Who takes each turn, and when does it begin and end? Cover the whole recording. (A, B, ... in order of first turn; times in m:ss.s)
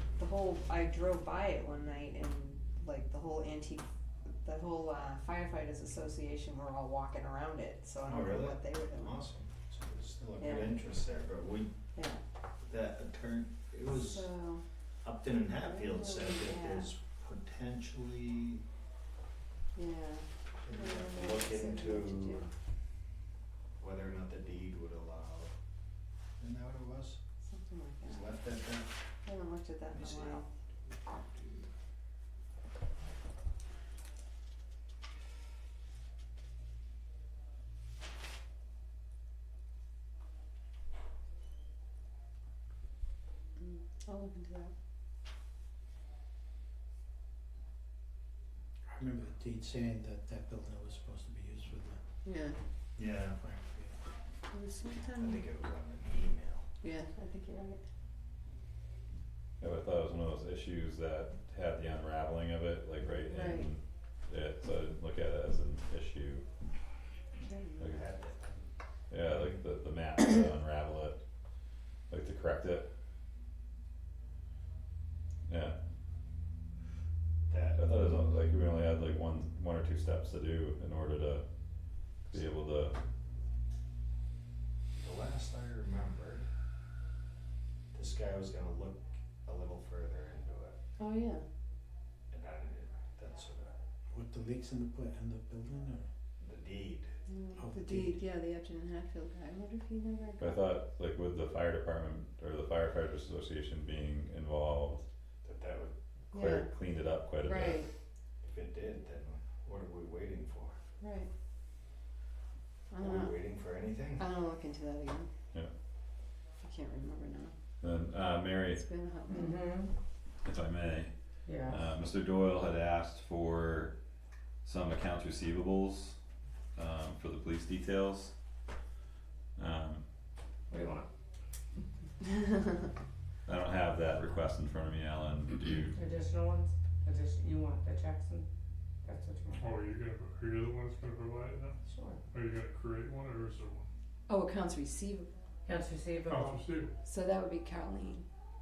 0:00.2-0:03.9 A
0:04.4-0:09.2 A
0:08.0-0:11.7 B
0:10.4-0:10.8 A
0:12.0-0:12.2 A
0:12.6-0:14.3 B
0:13.9-0:14.7 A
0:15.0-0:18.6 B
0:15.6-0:16.9 A
0:19.8-0:22.5 A
0:20.6-0:22.5 B
0:23.8-0:25.5 B
0:26.4-0:27.2 B
0:27.4-0:28.3 A
0:28.0-0:29.0 B
0:29.2-0:30.5 A
0:29.9-0:31.7 B
0:43.6-0:44.7 A
0:48.8-0:52.0 C
0:52.2-0:52.6 A
0:53.0-0:53.4 B
0:53.2-0:54.0 C
0:54.5-0:55.4 A
0:55.2-0:56.7 B
0:56.8-0:57.8 A
0:59.6-1:06.4 D
1:03.3-1:03.7 A
1:07.4-1:07.9 A
1:07.9-1:08.7 B
1:09.1-1:11.2 D
1:12.1-1:12.9 D
1:15.5-1:15.8 D
1:17.5-1:17.8 B
1:17.8-1:21.4 D
1:22.2-1:23.0 D
1:25.0-1:26.5 B
1:27.9-1:30.8 B
1:31.0-1:31.5 A
1:32.3-1:33.8 B
1:34.1-1:36.1 C
1:36.4-1:37.2 B
1:37.3-1:40.6 A
1:37.5-1:38.2 C
1:40.4-1:45.0 D
1:45.4-1:45.9 B
1:46.3-1:46.7 A
1:46.3-1:47.8 D
1:47.4-1:47.7 A
1:47.5-1:47.9 E
1:48.4-1:50.8 B
1:51.0-1:51.3 A
1:52.9-1:53.4 A
1:53.0-1:54.3 B
1:54.2-1:55.3 A
1:56.6-1:57.6 A
1:57.8-1:58.8 D
1:58.7-1:59.7 A
1:59.3-2:00.0 E
2:00.4-2:04.0 D
2:01.5-2:01.9 E
2:04.6-2:06.2 D
2:06.8-2:08.4 D
2:09.6-2:10.0 D
2:10.7-2:11.1 E
2:13.5-2:16.0 D
2:15.9-2:18.5 E
2:19.0-2:19.7 E
2:19.5-2:21.8 F
2:21.8-2:22.2 E
2:22.3-2:23.9 F
2:24.3-2:25.3 A
2:25.7-2:26.7 E
2:26.3-2:27.0 F
2:27.0-2:28.3 A